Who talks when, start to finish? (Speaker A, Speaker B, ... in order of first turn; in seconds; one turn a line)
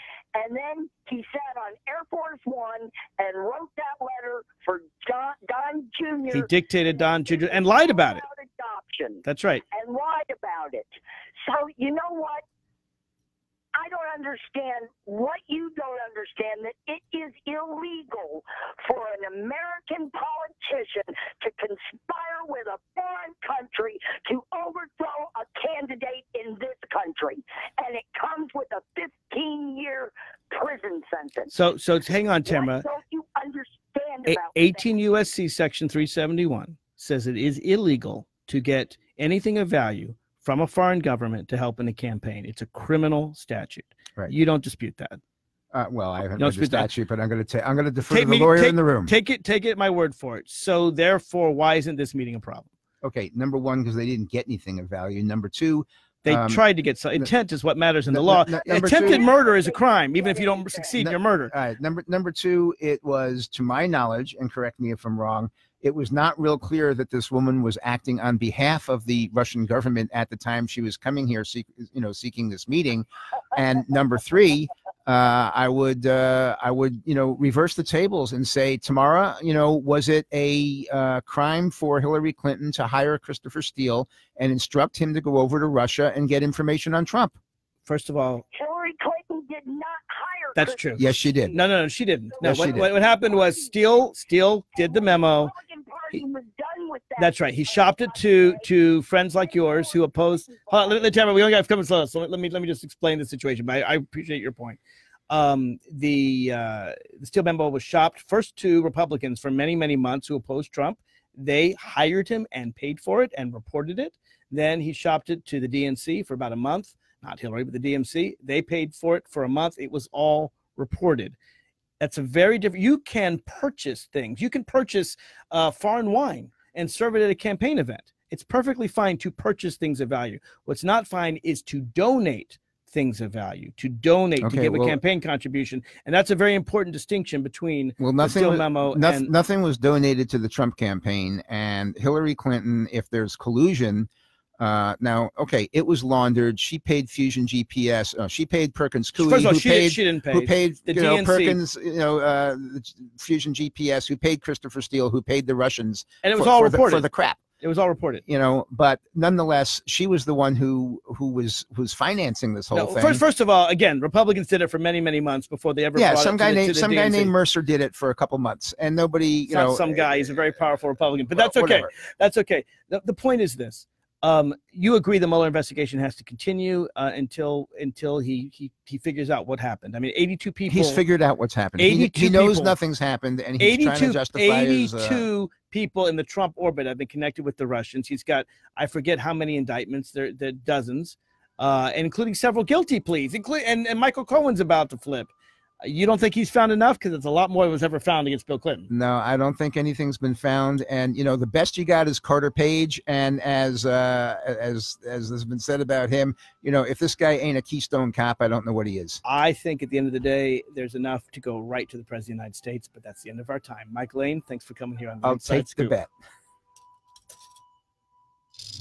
Speaker A: 0.3-12.4
Speaker B: 6.3-8.2
Speaker B: 9.2-9.6
Speaker A: 13.7-31.5
Speaker B: 31.5-32.9
Speaker A: 32.5-35.1
Speaker B: 34.2-45.2
Speaker C: 45.7-49.1
Speaker B: 46.4-46.9
Speaker B: 48.1-52.7
Speaker C: 53.0-57.3
Speaker B: 56.2-61.5
Speaker C: 58.1-59.3
Speaker A: 58.5-61.0
Speaker C: 61.0-87.3
Speaker B: 87.8-88.5
Speaker A: 88.5-91.6
Speaker B: 90.5-95.5
Speaker C: 91.0-91.6
Speaker A: 92.4-93.7
Speaker C: 92.4-92.9
Speaker A: 94.7-98.7
Speaker B: 97.2-121.3
Speaker A: 99.3-101.2
Speaker B: 122.0-139.3
Speaker C: 134.4-135.0
Speaker C: 138.0-157.4
Speaker B: 149.2-151.6
Speaker B: 156.2-157.1
Speaker B: 157.6-158.2
Speaker C: 158.2-163.2
Speaker B: 162.7-167.3
Speaker C: 165.9-170.0
Speaker B: 169.5-181.0
Speaker C: 171.3-171.9
Speaker C: 180.7-185.3
Speaker B: 181.8-182.8
Speaker B: 183.6-198.9
Speaker C: 198.9-209.2
Speaker B: 209.2-216.0
Speaker C: 215.2-216.1